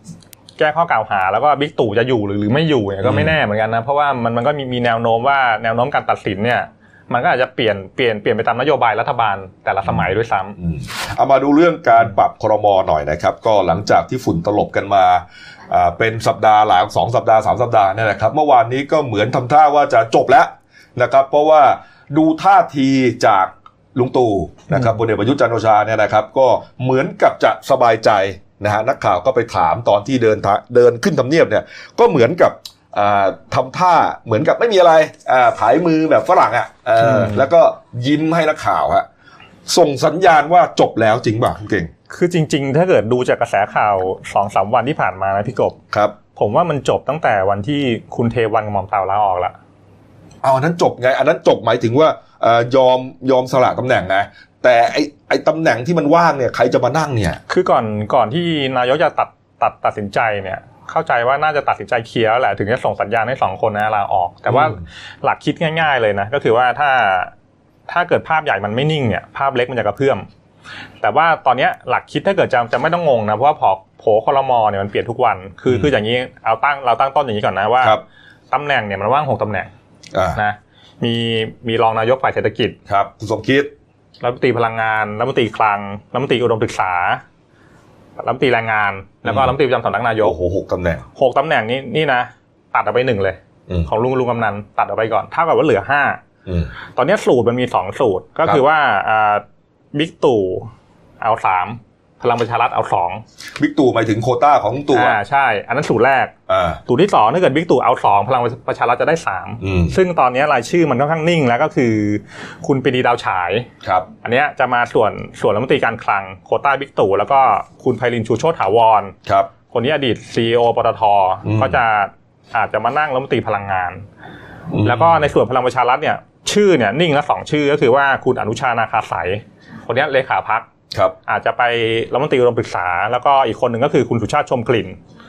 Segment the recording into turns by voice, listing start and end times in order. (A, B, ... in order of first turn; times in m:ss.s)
0:00.6-0:10.5 A
0:03.0-0:03.4 B
0:10.6-0:39.0 B
0:24.7-0:25.0 A
0:37.0-0:37.5 A
0:39.7-0:41.9 B
0:42.1-0:45.8 A
0:46.3-0:49.6 A
0:50.4-0:57.4 B
0:57.5-1:07.3 A
1:04.5-1:04.8 B
1:07.9-1:10.3 A
1:11.0-1:18.0 A
1:18.5-1:19.7 A
1:20.1-1:20.4 B
1:20.4-1:22.8 A
1:22.9-1:23.7 B
1:24.2-1:27.2 A
1:28.2-1:30.4 A
1:29.2-1:29.5 B
1:30.2-1:31.0 B
1:31.2-1:36.2 A
1:36.4-1:36.7 B
1:36.9-1:43.2 A
1:43.6-1:45.2 B
1:44.9-1:46.3 A
1:46.5-1:46.8 B
1:46.9-1:53.7 A
1:49.6-1:50.0 B
1:53.8-1:54.1 B
1:54.2-1:59.1 A
1:59.2-1:59.5 B
1:59.7-2:04.0 A
2:01.4-2:01.8 B
2:04.7-2:05.3 B
2:04.8-2:10.7 A
2:11.2-2:15.0 A